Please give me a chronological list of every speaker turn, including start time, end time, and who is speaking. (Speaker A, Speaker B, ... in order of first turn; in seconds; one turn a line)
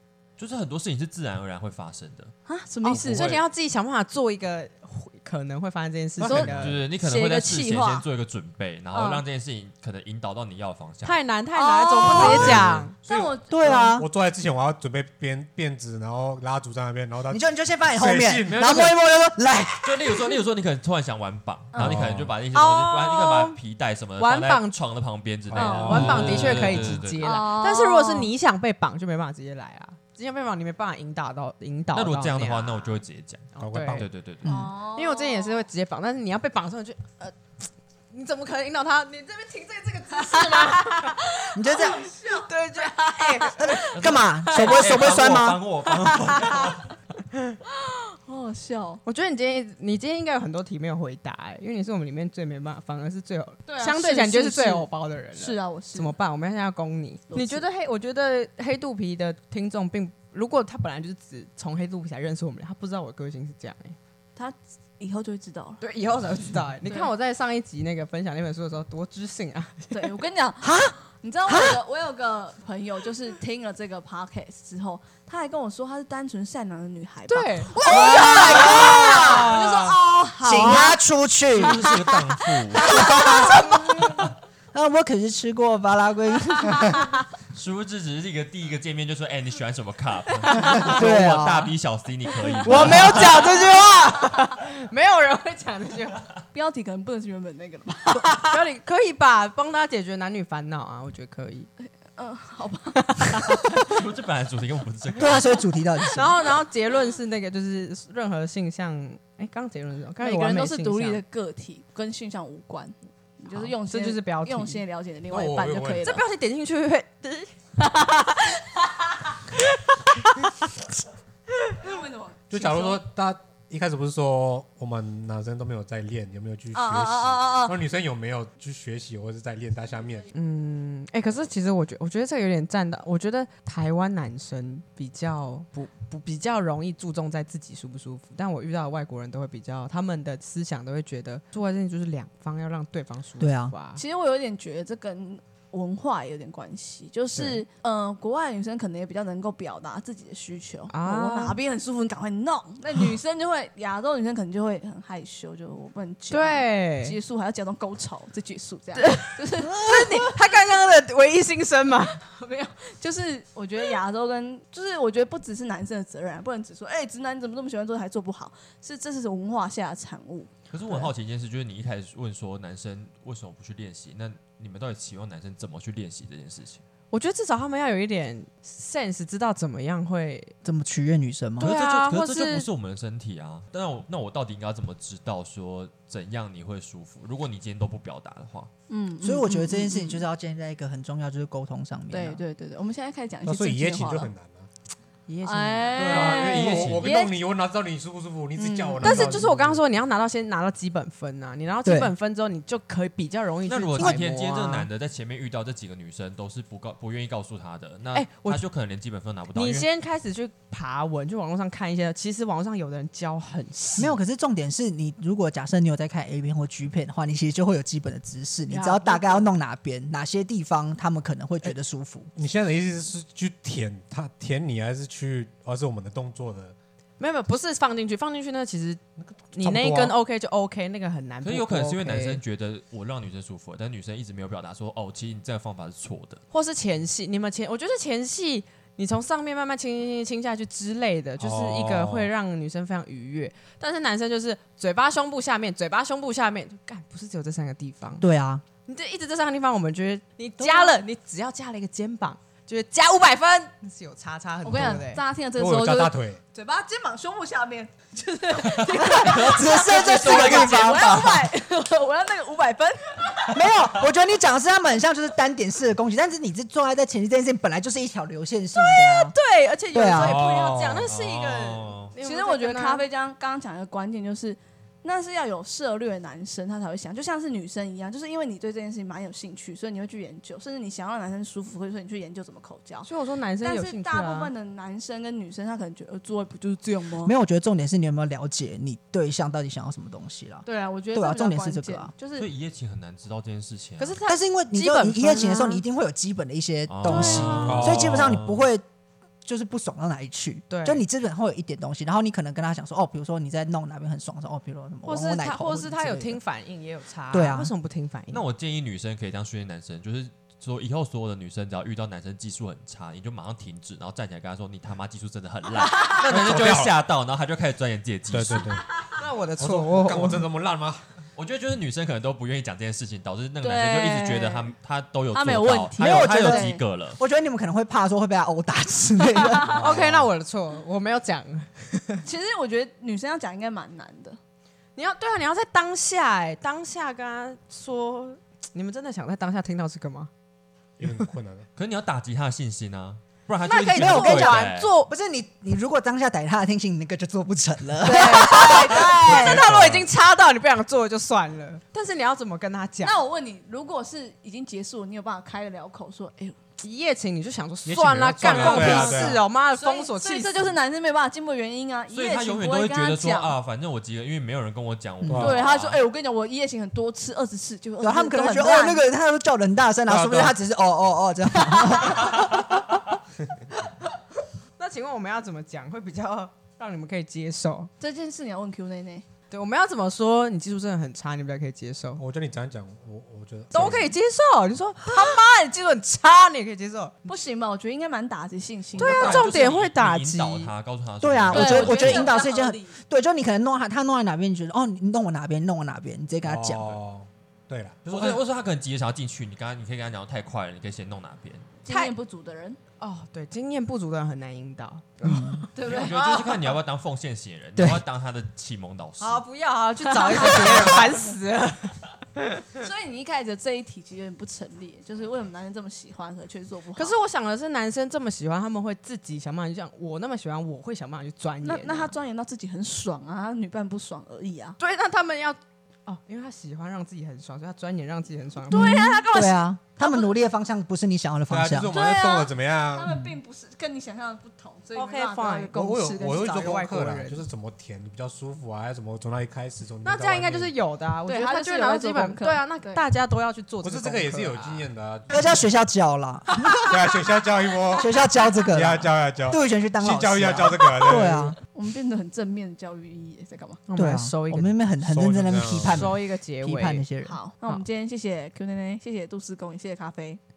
Speaker A: 0.4-2.3
Speaker B: 2.5-3.4
Speaker C: 2.8-6.8
Speaker D: 2.9-3.4
Speaker D: 6.2-6.8
Speaker A: 6.3-11.2
Speaker B: 7.0-8.0
Speaker B: 8.9-9.2
Speaker C: 11.0-12.9
Speaker B: 11.5-13.9
Speaker E: 12.1-12.5
Speaker D: 12.2-19.0
Speaker E: 13.5-14.1
Speaker E: 17.3-20.4
Speaker A: 19.8-27.3
Speaker B: 21.7-22.0
Speaker D: 21.8-22.3
Speaker C: 22.5-23.6
Speaker C: 24.2-24.8
Speaker D: 25.5-26.9
Speaker C: 25.5-33.0
Speaker B: 25.6-28.3
Speaker A: 31.9-34.5
Speaker C: 33.5-43.8
Speaker D: 33.6-34.1
Speaker E: 34.4-34.7
Speaker B: 34.4-35.6
Speaker B: 40.3-43.6
Speaker E: 41.5-42.1
Speaker E: 43.6-45.6
Speaker A: 43.9-47.0
Speaker B: 44.5-44.8
Speaker B: 46.0-46.6
Speaker B: 47.8-49.0
Speaker C: 49.0-64.0
Speaker B: 53.6-56.1
Speaker B: 57.3-57.6
Speaker B: 64.3-65.8
Speaker C: 65.8-70.1
Speaker B: 69.9-81.0
Speaker E: 70.6-71.8
Speaker C: 77.3-79.8
Speaker E: 77.8-79.6
Speaker A: 78.1-79.9
Speaker E: 80.4-82.0
Speaker A: 81.5-83.5
Speaker B: 82.8-83.8
Speaker E: 82.8-87.1
Speaker C: 83.2-83.7
Speaker A: 87.5-93.4
Speaker C: 90.6-90.9
Speaker E: 90.8-91.7
Speaker E: 92.6-94.5
Speaker C: 92.6-96.2
Speaker B: 96.5-98.4
Speaker C: 98.4-101.7
Speaker B: 102.1-104.0
Speaker C: 103.0-103.7
Speaker A: 103.7-105.7
Speaker E: 105.2-106.4
Speaker C: 106.0-111.2
Speaker B: 110.2-116.2
Speaker C: 113.5-114.8
Speaker D: 115.3-116.1
Speaker C: 116.0-117.5
Speaker B: 117.8-119.1
Speaker C: 120.0-120.5
Speaker B: 121.8-123.0
Speaker D: 122.5-130.3
Speaker B: 126.7-127.8
Speaker C: 130.3-144.0
Speaker E: 143.4-143.7
Speaker B: 143.9-160.3
Speaker C: 147.3-147.6
Speaker C: 150.9-151.6
Speaker C: 156.3-157.2
Speaker C: 158.9-162.2
Speaker B: 162.2-170.5
Speaker A: 170.7-176.8
Speaker C: 177.1-180.5
Speaker E: 180.6-181.7
Speaker C: 181.6-182.7
Speaker A: 181.6-188.7
Speaker B: 188.9-190.2
Speaker E: 189.2-192.4
Speaker B: 192.1-194.3
Speaker D: 193.4-194.7
Speaker C: 195.3-196.3
Speaker B: 195.4-197.4
Speaker A: 195.9-197.1
Speaker D: 196.0-199.8
Speaker B: 198.6-199.2
Speaker C: 199.0-204.8
Speaker E: 201.8-202.1
Speaker A: 203.7-209.8
Speaker E: 204.0-204.8
Speaker C: 208.1-208.6
Speaker C: 209.5-214.2
Speaker E: 214.0-222.3
Speaker C: 218.7-219.4
Speaker D: 222.3-226.7
Speaker C: 227.2-229.0
Speaker D: 229.2-230.2
Speaker C: 229.5-232.4
Speaker A: 231.4-236.4
Speaker C: 236.5-248.2
Speaker D: 241.4-242.3
Speaker E: 248.2-248.6
Speaker C: 248.8-255.2
Speaker E: 250.6-250.9
Speaker B: 254.6-263.5
Speaker D: 255.6-256.4
Speaker A: 258.8-261.2
Speaker E: 259.2-261.4
Speaker E: 263.5-269.4
Speaker C: 268.8-273.0
Speaker E: 269.9-270.4
Speaker D: 270.1-271.1
Speaker A: 270.9-272.1
Speaker B: 272.2-283.1
Speaker C: 283.0-284.5
Speaker B: 283.6-287.3
Speaker E: 287.2-292.1
Speaker B: 290.6-292.5
Speaker A: 292.3-294.2
Speaker C: 294.0-295.8
Speaker E: 294.2-298.8
Speaker A: 296.9-298.7
Speaker B: 297.0-297.8
Speaker C: 297.3-297.7
Speaker D: 297.6-298.4
Speaker E: 299.4-306.4
Speaker C: 300.7-301.0
Speaker C: 305.0-308.4
Speaker E: 307.3-307.7
Speaker A: 308.3-318.7
Speaker B: 315.9-316.2
Speaker D: 316.0-316.9
Speaker D: 318.3-318.9
Speaker C: 319.2-320.5
Speaker D: 319.6-321.0
Speaker A: 321.4-327.2
Speaker B: 323.6-324.7
Speaker B: 325.3-326.8
Speaker E: 326.0-330.0
Speaker B: 329.4-329.7
Speaker D: 329.6-330.3
Speaker C: 329.8-332.2
Speaker B: 332.2-334.4
Speaker C: 334.9-340.3
Speaker D: 341.0-341.7
Speaker A: 341.8-344.9
Speaker C: 343.6-345.1
Speaker E: 343.9-349.1
Speaker C: 348.0-353.1
Speaker B: 348.1-349.6
Speaker D: 349.2-350.1
Speaker B: 353.0-356.6
Speaker C: 356.8-360.8
Speaker D: 357.9-359.4
Speaker B: 358.4-363.5
Speaker A: 362.1-366.0
Speaker E: 365.2-365.5
Speaker D: 365.3-365.6
Speaker B: 365.4-369.0
Speaker E: 368.0-373.0
Speaker D: 370.1-370.5
Speaker B: 371.6-372.4
Speaker C: 374.8-377.9
Speaker B: 378.0-379.2
Speaker C: 379.5-382.2
Speaker D: 382.2-384.1
Speaker C: 383.7-387.3
Speaker B: 387.2-389.4
Speaker C: 389.0-390.7
Speaker A: 389.0-392.3
Speaker E: 391.2-397.0
Speaker B: 391.5-392.9
Speaker D: 396.4-398.4
Speaker A: 398.1-401.7
Speaker B: 401.8-402.8
Speaker C: 401.9-402.1
Speaker C: 403.0-405.7
Speaker E: 405.2-405.7
Speaker B: 405.7-406.7
Speaker A: 405.8-409.4
Speaker E: 407.8-408.0
Speaker C: 409.2-412.7
Speaker B: 410.1-411.1
Speaker B: 412.8-417.1
Speaker C: 416.9-422.1
Speaker B: 421.6-424.8
Speaker C: 424.8-429.0
Speaker B: 428.7-430.3
Speaker E: 428.7-431.9
Speaker D: 431.5-433.2
Speaker B: 431.9-436.5
Speaker C: 434.9-437.5
Speaker D: 435.7-440.7
Speaker C: 440.0-444.9
Speaker B: 441.2-443.0
Speaker D: 443.8-445.6
Speaker E: 445.3-447.0
Speaker D: 446.8-451.6
Speaker E: 448.0-451.6
Speaker B: 451.6-453.8
Speaker C: 453.9-454.8
Speaker E: 453.9-457.4
Speaker D: 455.0-456.1
Speaker C: 455.7-457.0
Speaker B: 457.2-460.4